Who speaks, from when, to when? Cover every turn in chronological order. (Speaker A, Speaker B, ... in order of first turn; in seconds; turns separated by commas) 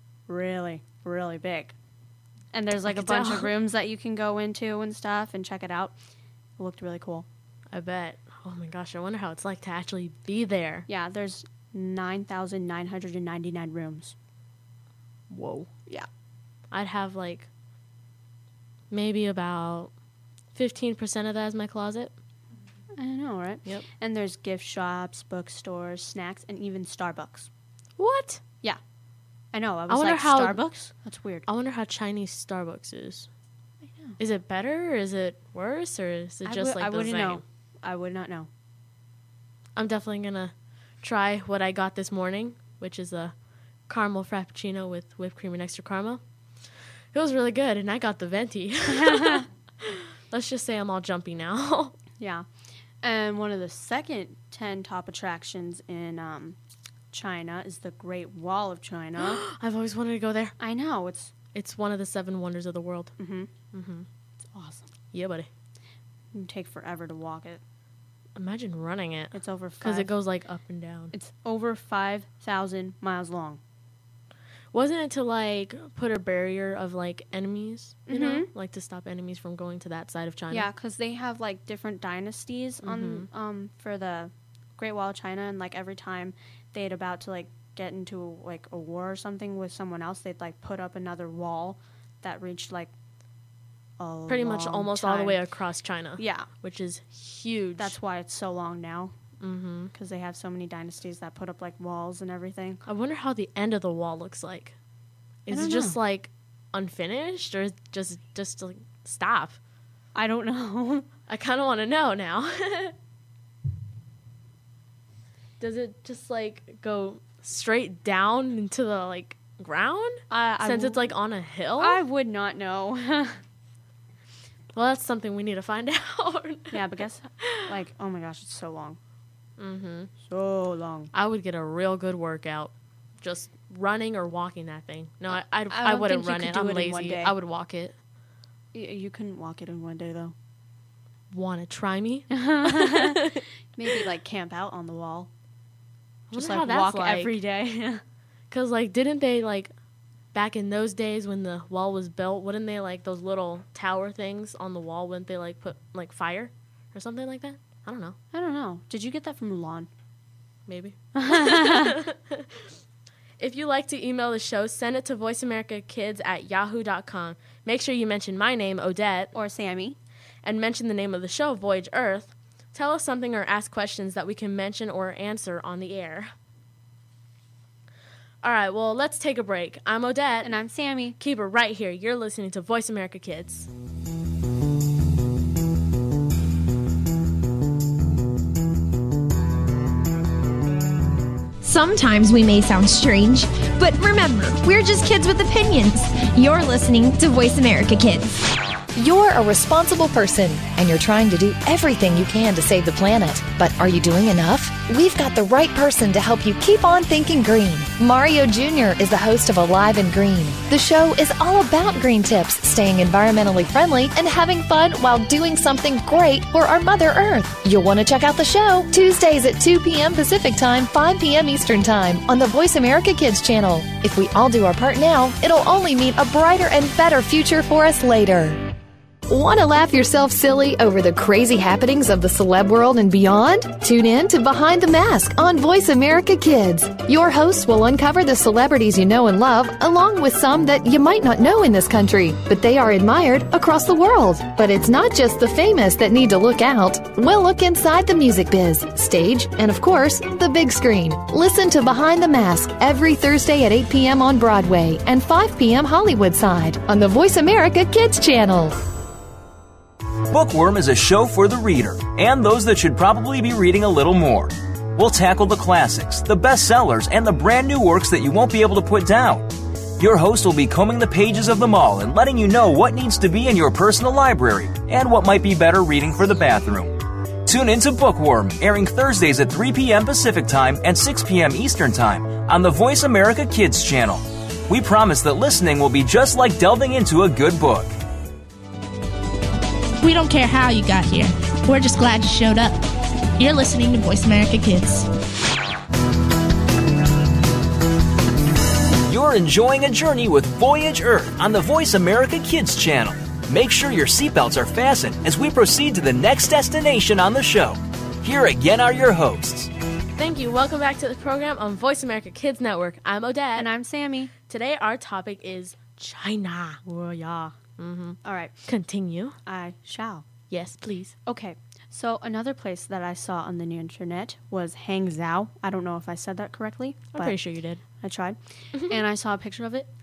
Speaker A: 0.3-1.7, Speaker A: 2.5-6.0, Speaker B: 2.8-3.5, Speaker A: 6.6-7.3, Speaker B: 7.7-10.8, Speaker A: 10.9-14.2, Speaker B: 15.3-15.7, Speaker B: 16.7-17.5, Speaker B: 18.9-19.9, Speaker B: 20.5-22.1, Speaker A: 22.9-27.5, Speaker B: 28.0-28.4, Speaker A: 29.5-31.4, Speaker B: 29.9-30.6, Speaker B: 31.5-33.3, Speaker A: 33.8-34.2, Speaker B: 34.2-37.4, Speaker A: 36.4-38.5, Speaker B: 39.8-43.3, Speaker B: 43.9-46.2, Speaker B: 47.1-52.0, Speaker A: 48.9-49.5, Speaker A: 52.2-52.5, Speaker A: 53.0-56.6, Speaker A: 57.1-59.4, Speaker B: 59.2-60.5, Speaker A: 60.6-61.3, Speaker B: 61.5-63.1, Speaker A: 63.2-63.5, Speaker B: 63.7-64.0, Speaker A: 64.5-64.9, Speaker B: 65.1-65.5, Speaker A: 66.3-67.6, Speaker B: 68.3-71.1, Speaker A: 69.3-70.1, Speaker A: 71.1-73.6, Speaker B: 74.7-80.7, Speaker A: 78.1-78.5, Speaker A: 80.5-92.9, Speaker B: 82.8-83.3, Speaker A: 94.0-95.4, Speaker B: 94.3-98.0, Speaker A: 96.2-96.5, Speaker A: 97.8-99.2, Speaker B: 99.4-99.9, Speaker A: 99.9-102.8, Speaker B: 102.8-104.7, Speaker B: 105.5-109.6, Speaker A: 105.5-106.0, Speaker A: 110.1-111.1, Speaker B: 111.3-112.9, Speaker B: 115.6-122.0, Speaker A: 120.3-121.1, Speaker A: 121.8-123.4, Speaker B: 124.7-127.7, Speaker A: 126.7-129.0, Speaker B: 129.6-130.1, Speaker A: 130.2-131.1, Speaker B: 131.1-137.9, Speaker A: 135.7-137.3, Speaker A: 138.7-140.3, Speaker B: 141.3-143.4, Speaker A: 142.3-145.3, Speaker B: 146.3-147.3, Speaker A: 146.3-148.0, Speaker B: 148.5-149.7, Speaker B: 150.3-158.2, Speaker A: 158.3-159.9, Speaker B: 160.7-162.6, Speaker A: 161.1-162.0, Speaker B: 163.4-169.3, Speaker A: 169.3-170.0, Speaker B: 170.4-176.3, Speaker B: 178.4-180.5, Speaker A: 180.4-181.2, Speaker B: 181.2-183.7, Speaker C: 191.6-198.4, Speaker D: 198.9-228.7, Speaker D: 229.3-258.9, Speaker E: 260.3-288.0, Speaker F: 290.0-292.8, Speaker F: 293.4-295.1, Speaker E: 299.1-309.7, Speaker B: 310.1-313.7, Speaker A: 313.5-314.3, Speaker B: 314.4-316.8, Speaker A: 316.8-317.6, Speaker B: 317.8-319.4, Speaker A: 318.2-318.6, Speaker A: 319.4-320.2, Speaker B: 320.5-321.1, Speaker A: 321.2-327.3, Speaker B: 327.1-327.8, Speaker A: 328.0-329.9